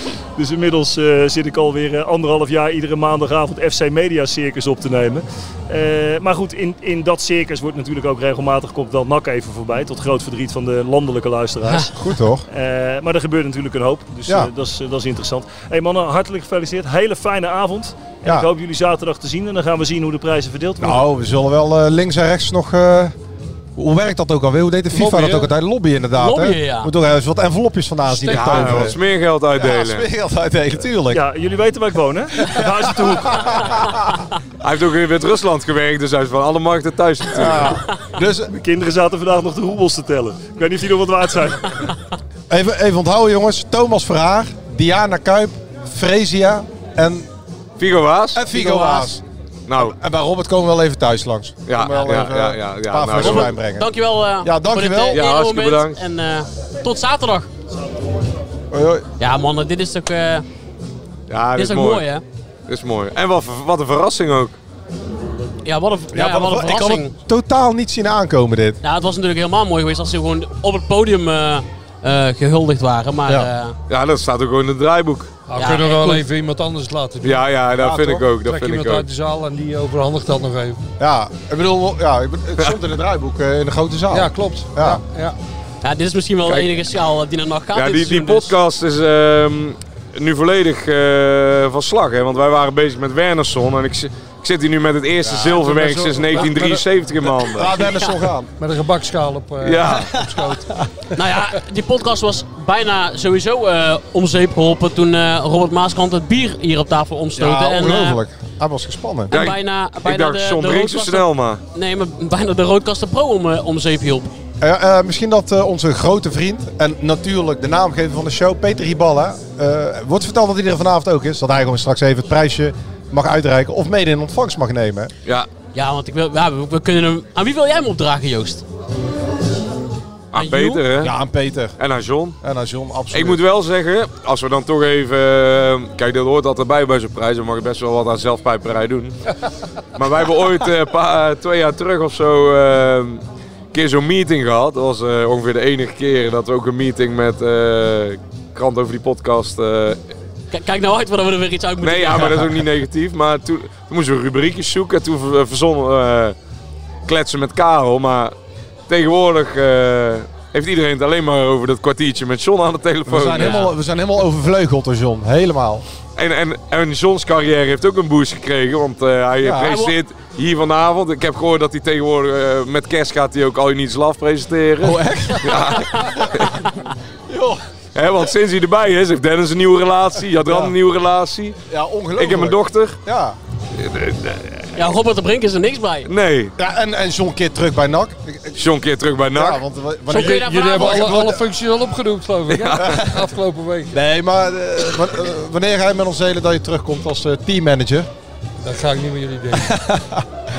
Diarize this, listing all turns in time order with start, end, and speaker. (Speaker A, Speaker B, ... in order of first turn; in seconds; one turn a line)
Speaker A: 0.4-11.9
Speaker B: 11.9-12.5
Speaker A: 12.5-21.0
Speaker B: 20.8-23.1
Speaker B: 23.8-29.0
Speaker C: 24.9-25.5
Speaker D: 26.2-26.9
Speaker E: 28.3-30.1
Speaker B: 29.6-31.2
Speaker A: 31.1-33.8
Speaker B: 32.4-34.2
Speaker E: 34.6-37.8
Speaker B: 37.3-38.5
Speaker A: 38.5-41.9
Speaker B: 42.5-47.3
Speaker E: 47.8-48.4
Speaker B: 48.3-49.2
Speaker D: 48.5-49.1
Speaker E: 49.7-50.0
Speaker B: 49.8-53.9
Speaker E: 51.7-53.5
Speaker D: 53.2-57.5
Speaker B: 54.4-55.2
Speaker E: 55.1-56.0
Speaker B: 58.7-59.1
Speaker D: 59.2-60.5
Speaker E: 61.3-62.0
Speaker D: 61.6-62.2
Speaker E: 62.7-64.6
Speaker D: 65.6-67.1
Speaker B: 66.1-68.8
Speaker D: 68.8-73.8
Speaker E: 73.9-75.3
Speaker C: 75.5-77.4
Speaker D: 75.6-76.2
Speaker E: 77.2-79.1
Speaker B: 77.8-78.2
Speaker C: 78.4-80.8
Speaker B: 81.0-85.0
Speaker C: 84.1-85.4
Speaker D: 85.8-88.5
Speaker E: 87.7-97.7
Speaker B: 95.2-95.6
Speaker C: 95.6-96.8
Speaker B: 97.4-98.5
Speaker D: 97.8-98.1
Speaker C: 98.6-100.7
Speaker E: 99.6-100.1
Speaker B: 100.2-100.5
Speaker D: 101.2-108.2
Speaker B: 107.4-109.3
Speaker D: 109.3-114.3
Speaker E: 109.3-111.6
Speaker B: 114.6-125.1
Speaker D: 125.7-128.6
Speaker E: 130.3-131.2
Speaker D: 130.3-130.8
Speaker B: 131.0-131.8
Speaker E: 131.8-132.4
Speaker B: 132.4-133.4
Speaker E: 133.1-139.2
Speaker E: 139.9-143.2
Speaker E: 143.7-150.0
Speaker D: 150.5-152.5
Speaker E: 151.8-156.3
Speaker E: 157.1-158.3
Speaker E: 158.9-163.7
Speaker B: 163.1-165.8
Speaker D: 163.3-163.7
Speaker E: 166.2-176.6
Speaker B: 169.4-169.8
Speaker D: 169.6-169.9
Speaker B: 174.8-176.5
Speaker B: 177.3-177.6
Speaker E: 177.9-181.6
Speaker B: 180.4-180.7
Speaker B: 181.7-183.4
Speaker E: 182.2-183.0
Speaker E: 183.8-184.7
Speaker D: 184.8-186.1
Speaker E: 186.1-186.5
Speaker B: 186.6-188.6
Speaker E: 188.6-189.6
Speaker B: 189.3-191.4
Speaker D: 190.1-191.2
Speaker C: 190.1-194.0
Speaker E: 192.5-192.9
Speaker B: 192.8-193.1
Speaker B: 193.9-198.1
Speaker C: 198.6-199.7
Speaker B: 199.5-200.3